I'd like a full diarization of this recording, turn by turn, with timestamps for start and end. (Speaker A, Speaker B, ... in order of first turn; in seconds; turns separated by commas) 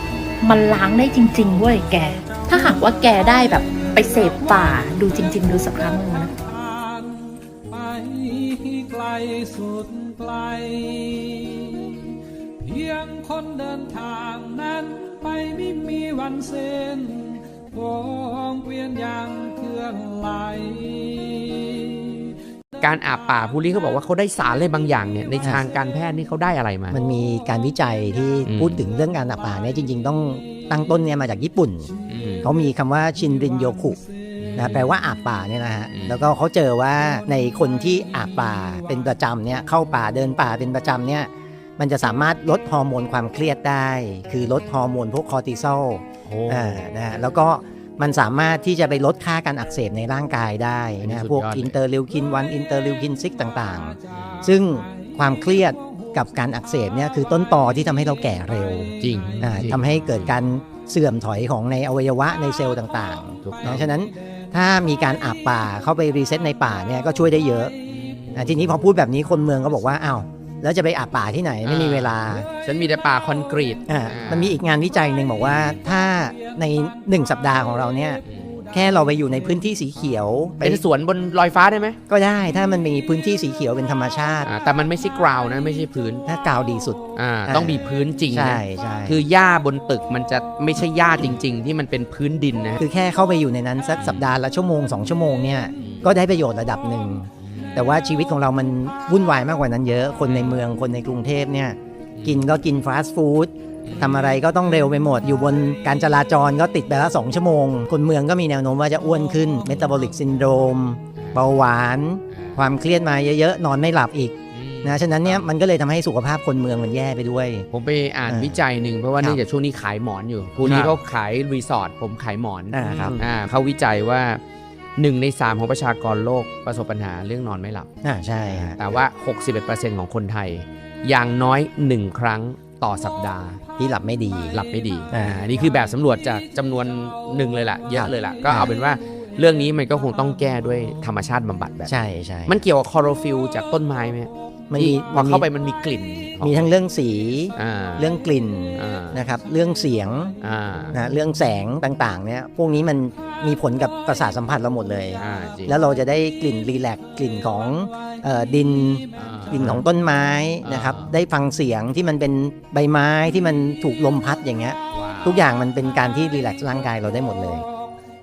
Speaker A: 0.4-6.3, Speaker B: 2.5-22.2, Speaker C: 22.8-27.0, Speaker D: 26.9-31.9, Speaker C: 28.5-28.8, Speaker C: 32.1-32.5, Speaker D: 32.4-34.0, Speaker C: 34.4-34.9, Speaker D: 34.6-67.7, Speaker C: 35.9-36.3, Speaker C: 46.2-47.0, Speaker C: 51.0-51.7, Speaker C: 54.1-54.5, Speaker C: 59.0-60.3, Speaker C: 63.4-63.9, Speaker C: 67.9-68.8, Speaker D: 68.3-72.5, Speaker C: 71.6-74.6, Speaker D: 73.9-78.2, Speaker C: 75.4-75.8, Speaker C: 78.2-78.6, Speaker D: 78.7-80.8, Speaker C: 80.6-82.0, Speaker D: 82.1-84.5, Speaker C: 84.4-86.2, Speaker D: 86.2-89.2, Speaker C: 87.2-92.8, Speaker D: 92.8-117.7, Speaker C: 94.0-94.3, Speaker C: 95.8-96.2, Speaker C: 97.4-97.9, Speaker C: 100.2-100.6, Speaker C: 102.2-102.5, Speaker C: 103.8-104.3, Speaker C: 111.2-111.5, Speaker C: 112.3-112.7, Speaker C: 114.5-115.5, Speaker C: 117.7-124.4, Speaker D: 118.3-118.6, Speaker D: 120.6-120.9, Speaker D: 122.7-123.2, Speaker C: 125.0-127.9, Speaker D: 128.0-128.9, Speaker C: 128.4-133.6, Speaker D: 133.8-134.6, Speaker C: 134.5-146.7, Speaker D: 135.1-135.7, Speaker D: 137.9-138.7, Speaker D: 141.8-142.6, Speaker D: 144.7-145.5, Speaker D: 146.4-150.3, Speaker C: 147.6-148.1, Speaker C: 148.8-149.2, Speaker C: 150.4-151.0, Speaker D: 150.9-167.7, Speaker C: 155.2-155.8, Speaker C: 159.2-159.8, Speaker C: 160.6-161.2, Speaker C: 164.9-165.4